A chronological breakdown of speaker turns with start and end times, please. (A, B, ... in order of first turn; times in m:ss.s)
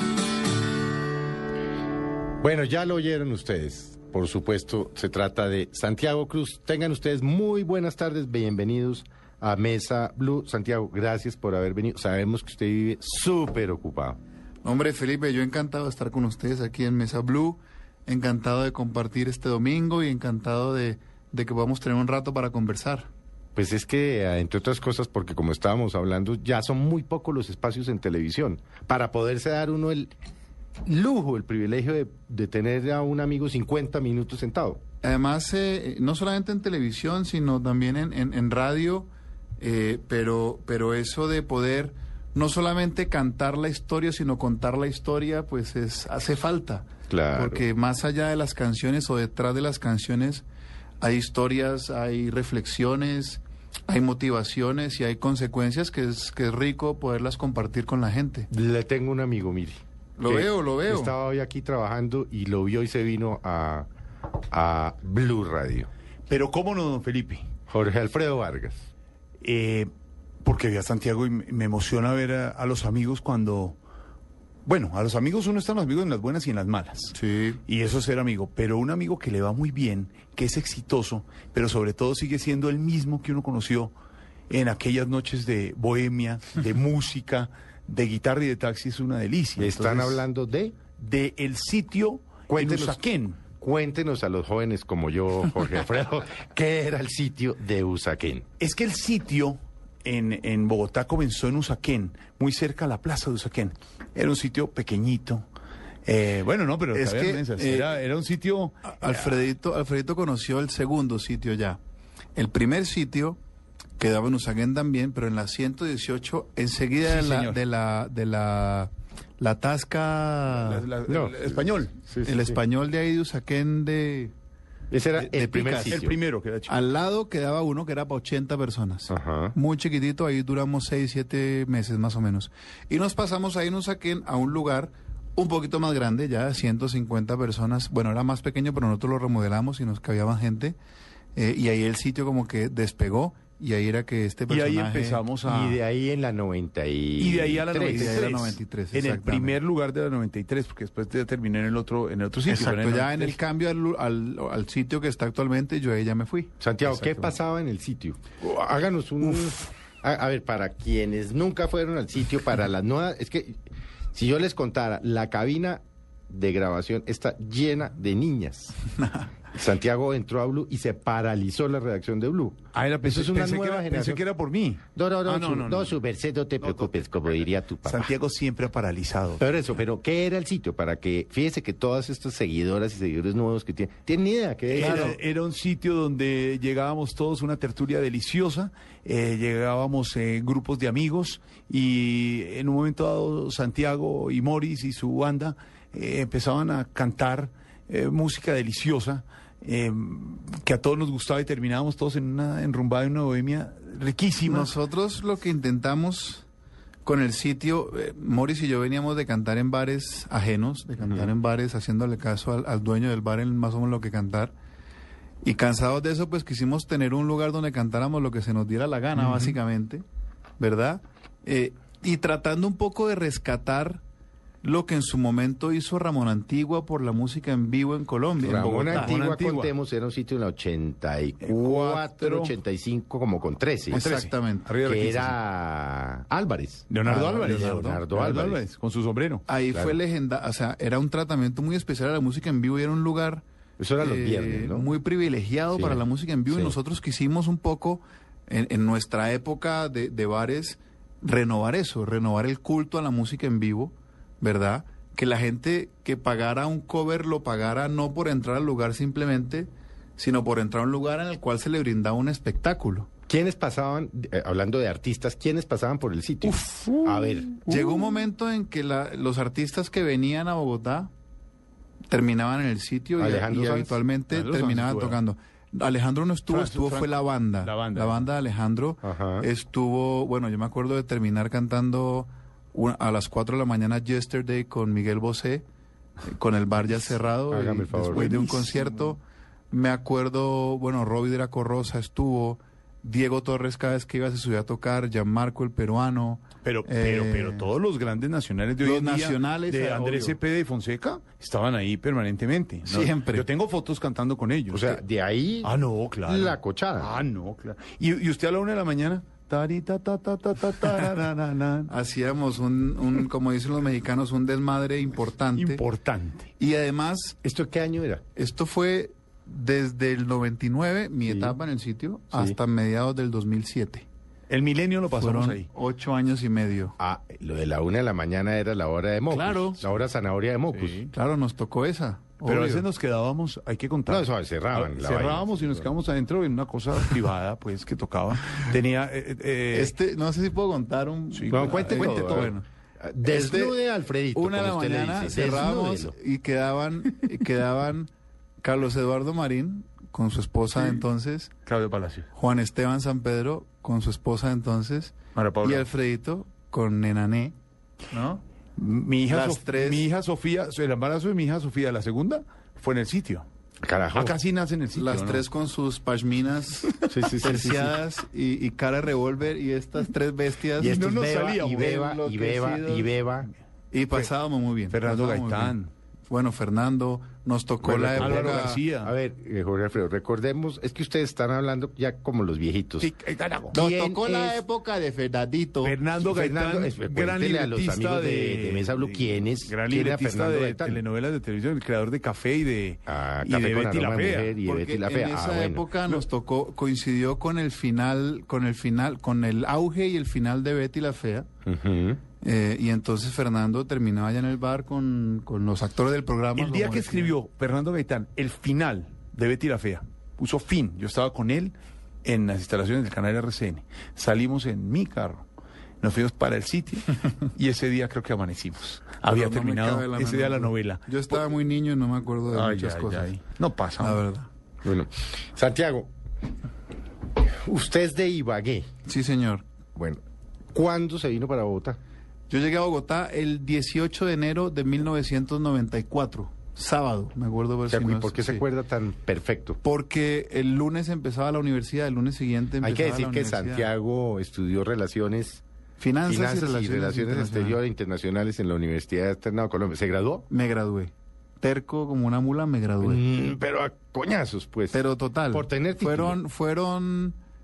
0:02.4-0:14.2 A
0:14.6-0:23.1 B
0:23.5-0:30.1 A
0:30.8-0:34.8 A
0:35.0-0:39.1 B
0:39.6-0:50.4 B
0:47.1-0:47.6 A
0:51.0-0:58.5 B
0:58.5-1:03.9 A
1:00.2-1:01.1 B
1:04.5-1:05.9 A
1:06.3-1:07.4 C
1:07.7-1:08.9 A
1:09.4-1:09.9 C
1:10.4-1:13.8 C
1:14.6-1:17.2 C
1:17.1-1:17.6 B
1:17.7-1:23.9 C
1:24.5-1:30.2 C
1:29.6-1:30.8 A
1:31.0-1:33.4 C
1:32.5-1:33.0 A
1:33.5-1:38.4 A
1:38.6-1:45.4 C
1:46.0-1:48.9 C
1:46.9-1:48.0 B
1:48.8-1:51.8 B
1:52.4-1:53.4 B
1:54.0-2:00.8 B
1:57.0-1:57.6 C
2:00.5-2:01.9 C
2:01.1-2:02.6 A
2:02.2-2:04.3 B
2:04.9-2:06.2 A
2:05.2-2:06.0 B
2:05.8-2:06.8 C
2:06.7-2:20.8 B
2:09.1-2:09.6 A
2:21.4-2:25.2 B
2:24.5-2:25.8 C
2:25.5-2:28.3 A
2:27.2-2:33.4 C
2:27.8-2:29.6 B
2:32.4-2:36.5 B
2:36.6-2:43.6 A
2:36.8-2:37.3 C
2:39.3-2:39.5 C
2:44.1-2:48.8 A
2:49.5-2:54.2 A
2:52.7-2:56.0 C
2:54.9-2:58.1 A
2:56.6-2:57.0 C
2:57.8-2:59.4 C
2:59.4-3:05.2 A
3:04.7-3:24.7 C
3:04.8-3:05.2 B
3:24.4-3:26.4 B
3:27.0-3:34.5 B
3:35.4-3:40.0 B
3:39.2-3:39.5 C
3:40.6-3:44.0 B
3:44.6-3:49.1 B
3:48.4-3:54.0 A
3:48.5-3:49.7 C
3:51.4-3:52.5 C
3:53.9-3:54.7 B
3:53.9-3:55.4 C
3:54.8-3:58.6 A
3:56.9-3:59.4 C
3:59.5-4:03.4 B
4:03.8-4:04.9 A
4:04.0-4:23.1 B
4:05.7-4:06.7 A
4:23.3-4:27.7 A
4:26.6-4:26.9 B
4:27.6-4:31.1 B
4:32.1-4:45.6 B
4:33.2-4:34.0 A
4:34.3-4:35.2 C
4:36.5-4:38.3 C
4:39.0-4:39.5 A
4:46.3-4:57.7 B
4:47.5-4:48.2 A
4:48.1-4:49.1 C
4:56.6-5:05.0 C
4:58.8-5:00.4 B
5:02.8-5:03.4 B
5:04.7-5:05.7 A
5:05.6-5:11.9 C
5:06.2-5:07.2 A
5:11.9-5:15.8 B
5:15.5-5:16.5 C
5:16.6-5:17.4 B
5:17.4-5:18.2 A
5:18.4-5:24.0 B
5:21.3-5:21.6 A
5:22.3-5:22.6 A
5:24.5-5:25.7 C
5:25.2-5:26.9 B
5:27.0-5:31.0 A
5:29.3-5:29.8 B
5:30.7-5:31.1 C
5:31.1-5:32.8 B
5:32.4-5:39.9 C
5:34.1-5:35.9 A
5:39.7-5:42.6 B
5:41.3-5:42.5 C
5:41.5-5:46.1 A
5:43.2-5:43.8 B
5:44.3-5:48.1 B
5:48.6-5:51.5 B
5:50.7-5:51.0 C
5:51.6-5:52.3 C
5:52.3-5:57.5 B
5:55.3-5:55.9 C
5:58.1-5:58.4 B
5:58.8-6:03.4 C
5:59.3-6:00.1 B
6:03.8-6:04.3 A
6:04.1-6:05.4 C
6:04.9-6:11.0 B
6:07.1-6:08.0 A
6:10.8-6:13.5 A
6:10.8-6:12.0 C
6:11.9-6:13.1 B
6:13.9-6:15.8 B
6:14.9-6:15.9 C
6:16.3-6:18.8 B
6:17.8-6:23.1 A
6:17.8-6:19.1 C
6:23.0-6:23.8 C
6:23.7-6:24.6 A
6:23.7-6:26.0 B
6:25.8-6:34.5 C
6:26.2-6:31.0 A
6:33.1-6:35.9 A
6:34.6-6:41.5 B
6:41.6-6:42.2 A
6:42.4-6:47.3 B
6:46.6-6:55.4 C
6:56.0-7:01.5 C
6:59.3-7:03.3 B
7:02.5-7:04.2 C
7:04.0-7:04.5 B
7:04.8-7:06.1 A
7:07.4-7:08.9 A
7:09.1-7:09.6 B
7:09.9-7:10.2 A
7:10.7-7:12.0 A
7:12.5-7:18.7 B
7:17.9-7:19.8 A
7:19.8-7:23.9 B
7:22.8-7:25.6 A
7:26.0-7:27.8 B
7:26.3-7:30.4 A
7:30.5-7:33.2 B
7:33.0-7:35.0 A
7:34.9-7:37.4 B
7:35.5-7:36.4 A